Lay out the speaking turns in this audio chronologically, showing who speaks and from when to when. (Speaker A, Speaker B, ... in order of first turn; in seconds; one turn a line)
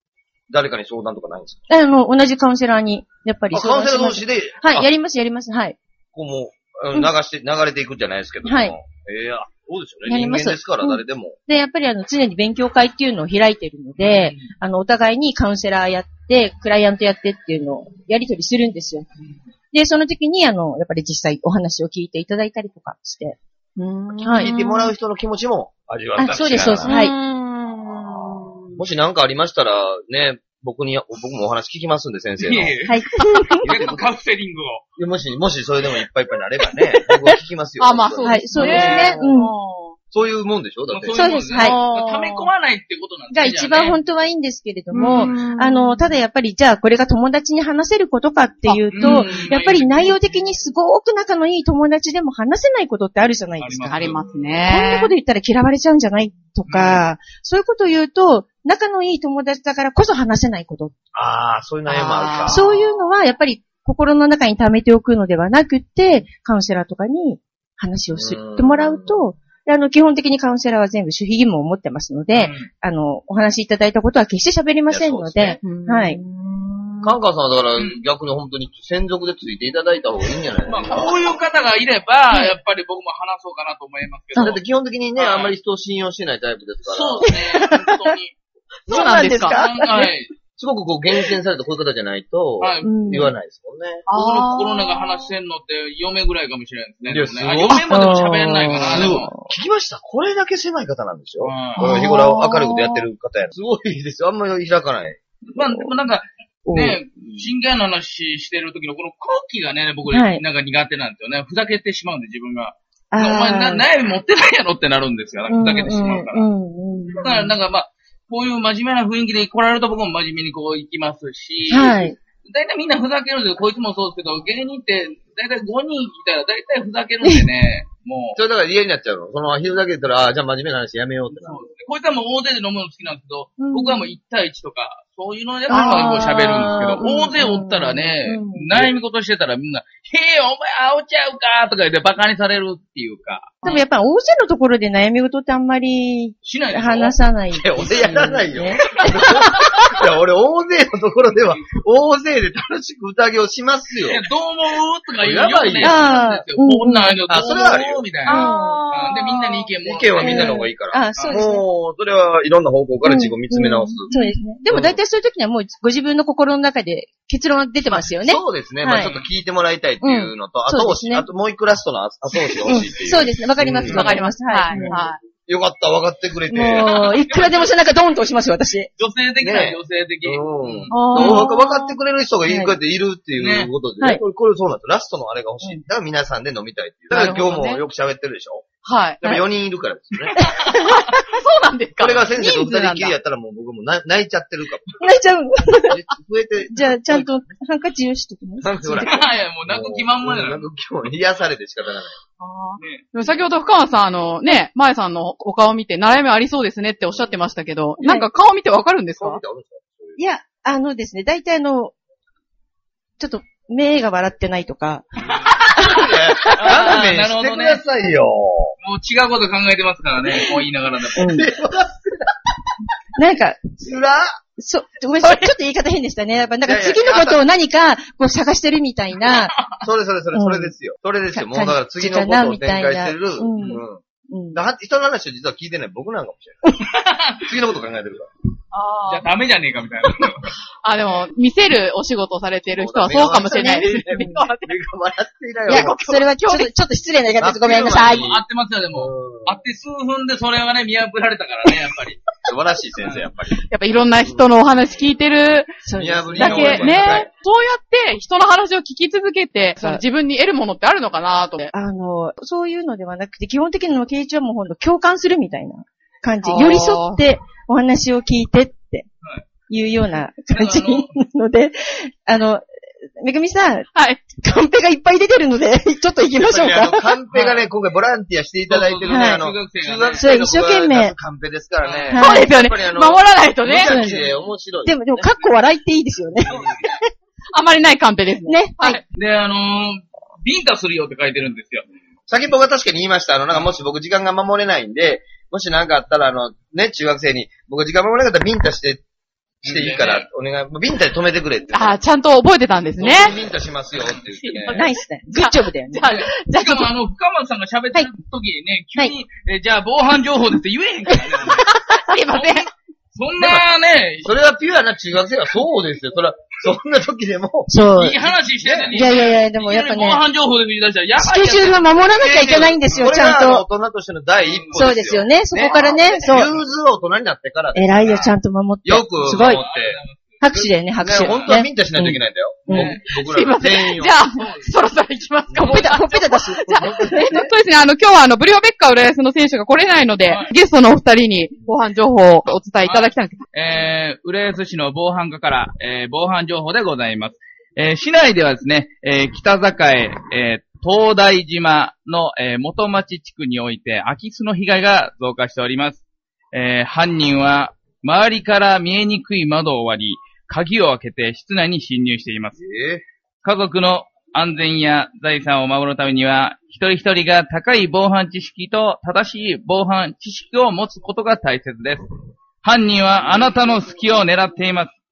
Speaker A: 0.5-1.6
Speaker B: 1.7-5.8
Speaker A: 3.5-4.9
Speaker A: 6.1-11.4
Speaker B: 8.4-8.7
Speaker B: 10.1-19.1
Speaker C: 14.0-14.5
Speaker B: 19.7-23.4
Speaker D: 23.8-24.9
Speaker B: 24.2-24.5
Speaker A: 24.4-26.9
Speaker B: 26.2-27.1
Speaker D: 26.8-28.8
Speaker A: 28.8-32.8
Speaker C: 32.4-33.0
Speaker B: 32.9-33.6
Speaker C: 33.5-34.8
Speaker A: 33.6-34.1
Speaker A: 35.0-39.2
Speaker D: 37.8-40.0
Speaker B: 38.2-39.5
Speaker C: 38.6-39.1
Speaker A: 40.1-41.2
Speaker C: 40.9-44.0
Speaker B: 41.1-41.8
Speaker D: 41.5-42.5
Speaker B: 43.3-54.1
Speaker D: 44.9-46.2
Speaker D: 48.6-49.3
Speaker C: 48.9-50.3
Speaker C: 53.6-54.4
Speaker D: 53.9-55.1
Speaker B: 54.7-60.9
Speaker C: 56.7-57.0
Speaker A: 61.1-62.7
Speaker D: 61.9-62.6
Speaker B: 62.5-76.2
Speaker A: 68.1-69.2
Speaker C: 72.3-72.7
Speaker A: 74.9-75.6
Speaker D: 75.6-77.1
Speaker A: 77.0-81.2
Speaker C: 80.7-84.6
Speaker A: 84.3-87.3
Speaker C: 85.2-85.5
Speaker C: 86.9-88.3
Speaker B: 87.2-88.2
Speaker B: 88.9-90.1
Speaker D: 88.9-89.6
Speaker C: 89.0-90.3
Speaker A: 90.6-94.0
Speaker C: 92.6-93.2
Speaker B: 92.8-93.3
Speaker D: 94.1-95.3
Speaker C: 94.1-99.3
Speaker A: 97.1-97.9
Speaker B: 97.9-99.4
Speaker A: 98.7-105.2
Speaker C: 101.4-101.9
Speaker B: 101.8-102.7
Speaker D: 101.9-103.0
Speaker C: 105.5-116.5
Speaker B: 106.7-107.0
Speaker B: 110.1-110.4
Speaker B: 113.1-113.8
Speaker B: 115.5-117.5
Speaker C: 117.2-128.4
Speaker B: 121.7-122.2
Speaker A: 128.4-131.6
Speaker C: 131.3-143.8
Speaker B: 133.6-134.1
Speaker B: 135.7-138.7
Speaker D: 135.7-136.2
Speaker B: 143.6-149.7
Speaker C: 146.4-147.2
Speaker A: 147.5-154.2
Speaker C: 154.0-160.6
Speaker A: 155.2-156.1
Speaker B: 155.8-157.2
Speaker A: 157.3-158.0
Speaker D: 158.3-159.7
Speaker B: 158.3-158.8
Speaker A: 159.8-164.1
Speaker B: 160.2-161.6
Speaker C: 161.2-161.4
Speaker B: 163.0-169.1
Speaker D: 164.1-164.4
Speaker A: 164.7-165.0
Speaker A: 167.9-174.2
Speaker C: 169.0-169.3
Speaker B: 170.0-171.3
Speaker B: 172.6-175.0
Speaker D: 173.9-175.2
Speaker A: 175.5-177.0
Speaker B: 176.5-178.9
Speaker C: 176.8-177.6
Speaker C: 179.0-180.9
Speaker A: 179.4-188.7
Speaker D: 180.9-181.9
Speaker B: 181.1-181.5
Speaker B: 182.5-182.7
Speaker C: 183.4-183.7
Speaker D: 187.1-187.8
Speaker D: 188.8-189.2
Speaker A: 189.2-190.4
Speaker B: 190.4-191.1
Speaker D: 190.7-193.2
Speaker A: 192.0-195.0
Speaker B: 195.0-196.0
Speaker A: 195.8-197.3
Speaker B: 196.7-199.2
Speaker A: 198.6-202.2
Speaker C: 199.1-200.7
Speaker D: 202.4-209.4
Speaker C: 202.8-203.1
Speaker B: 208.0-208.3
Speaker A: 209.2-210.2
Speaker B: 210.2-211.9
Speaker B: 213.2-216.9
Speaker A: 215.3-218.8
Speaker C: 216.6-217.8
Speaker C: 218.8-221.4
Speaker B: 221.2-221.5
Speaker A: 221.2-222.3
Speaker B: 223.2-223.8
Speaker A: 223.8-224.4
Speaker B: 224.6-229.7
Speaker A: 226.6-227.4
Speaker C: 229.3-229.8
Speaker A: 229.8-234.0
Speaker B: 230.3-230.7
Speaker B: 231.3-234.6
Speaker A: 234.5-236.7
Speaker C: 236.9-237.5
Speaker A: 237.4-238.3
Speaker D: 238.7-239.3
Speaker C: 239.1-240.5
Speaker D: 240.8-244.7
Speaker A: 242.7-246.0
Speaker B: 243.6-244.3
Speaker D: 245.7-246.7
Speaker B: 245.7-248.3
Speaker A: 247.4-249.6
Speaker C: 247.8-252.2
Speaker A: 252.4-254.7
Speaker D: 253.7-255.8
Speaker B: 255.8-257.2
Speaker A: 255.9-257.3
Speaker D: 256.4-261.7
Speaker B: 259.8-260.0
Speaker B: 261.7-269.1
Speaker D: 266.4-267.2
Speaker B: 269.7-272.6
Speaker C: 270.5-271.1
Speaker B: 273.2-277.1
Speaker D: 273.9-274.2
Speaker A: 276.2-285.3
Speaker C: 277.3-277.6
Speaker C: 278.7-280.3
Speaker B: 279.1-279.4
Speaker B: 280.2-281.1
Speaker C: 281.8-282.1
Speaker B: 282.1-282.5
Speaker D: 282.2-284.0
Speaker B: 283.8-284.3
Speaker B: 284.9-287.1
Speaker A: 286.5-286.7
Speaker D: 287.5-289.0
Speaker B: 288.5-289.0
Speaker C: 289.1-291.9
Speaker A: 292.3-299.0
Speaker A: 299.6-302.0
Speaker C: 299.6-300.2
Speaker D: 301.7-303.4
Speaker A: 303.0-304.9
Speaker D: 304.4-306.9
Speaker B: 304.7-306.1
Speaker C: 306.0-311.8
Speaker D: 311.5-312.7
Speaker C: 312.3-314.3
Speaker A: 313.4-313.6
Speaker A: 314.2-317.7
Speaker B: 317.7-318.2
Speaker C: 317.9-323.1
Speaker A: 318.6-319.1
Speaker B: 318.9-320.2
Speaker B: 321.2-323.6
Speaker A: 322.9-328.3
Speaker C: 324.4-324.9
Speaker B: 324.8-326.5
Speaker C: 325.6-326.5
Speaker B: 327.8-329.6
Speaker A: 328.8-330.0
Speaker C: 329.2-330.4
Speaker B: 330.4-332.9
Speaker A: 330.6-334.2
Speaker C: 331.2-331.6
Speaker C: 332.7-333.0
Speaker D: 332.7-343.4
Speaker C: 334.4-334.7
Speaker A: 335.5-335.9
Speaker B: 335.6-337.5
Speaker A: 336.8-337.1
Speaker C: 342.5-362.6
Speaker A: 362.6-363.0
Speaker C: 363.4-372.0
Speaker C: 372.6-374.9